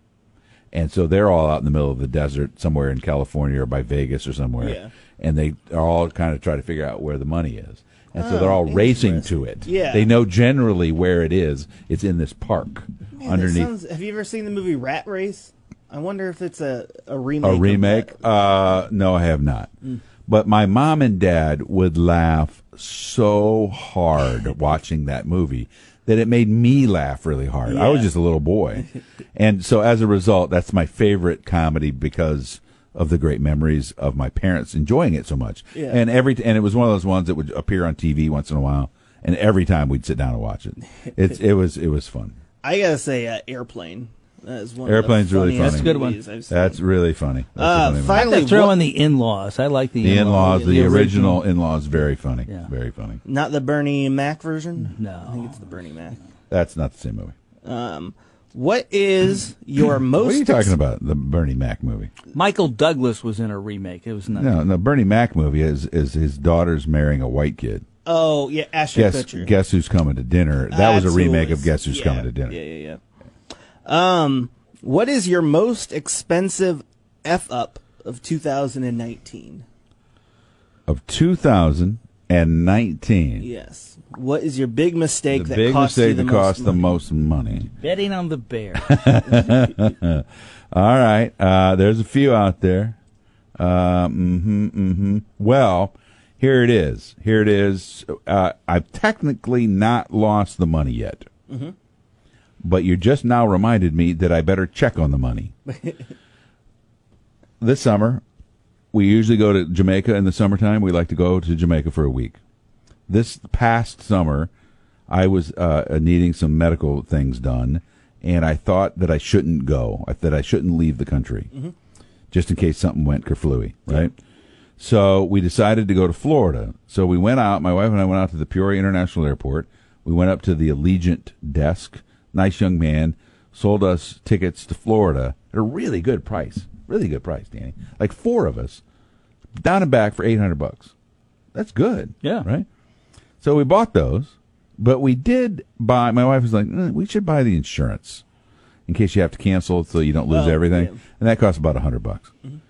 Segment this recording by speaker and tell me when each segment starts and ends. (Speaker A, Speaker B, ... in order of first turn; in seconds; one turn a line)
Speaker A: 0.7-13.7
Speaker B: 4.6-4.9
Speaker B: 8.1-10.1
Speaker B: 13.2-18.2
Speaker A: 17.4-19.7
Speaker A: 20.3-42.4
Speaker B: 27.6-28.1
Speaker B: 35.7-36.0
Speaker B: 42.6-46.8
Speaker A: 44.8-45.9
Speaker C: 45.5-46.2
Speaker A: 46.5-48.3
Speaker B: 47.6-48.8
Speaker C: 48.1-51.4
Speaker A: 50.0-53.2
Speaker B: 50.1-51.0
Speaker B: 53.2-56.2
Speaker C: 54.8-55.6
Speaker A: 56.5-57.3
Speaker B: 57.6-60.8
Speaker A: 60.1-62.1
Speaker C: 62.3-64.6
Speaker A: 64.3-67.8
Speaker B: 68.0-69.5
Speaker A: 68.9-72.6
Speaker B: 70.6-73.0
Speaker B: 73.8-79.6
Speaker A: 80.9-83.5
Speaker B: 83.4-86.8
Speaker A: 85.3-87.7
Speaker C: 87.8-89.0
Speaker A: 88.8-93.0
Speaker A: 93.6-101.3
Speaker B: 101.5-101.7
Speaker A: 102.6-105.5
Speaker B: 105.7-106.0
Speaker A: 107.6-108.2
Speaker A: 108.9-112.4
Speaker A: 113.1-114.5
Speaker A: 115.1-121.5
Speaker A: 122.3-124.1
Speaker A: 124.8-138.8
Speaker A: 139.6-140.9
Speaker A: 141.5-142.7
Speaker A: 143.4-148.2
Speaker A: 148.9-152.3
Speaker B: 150.3-151.0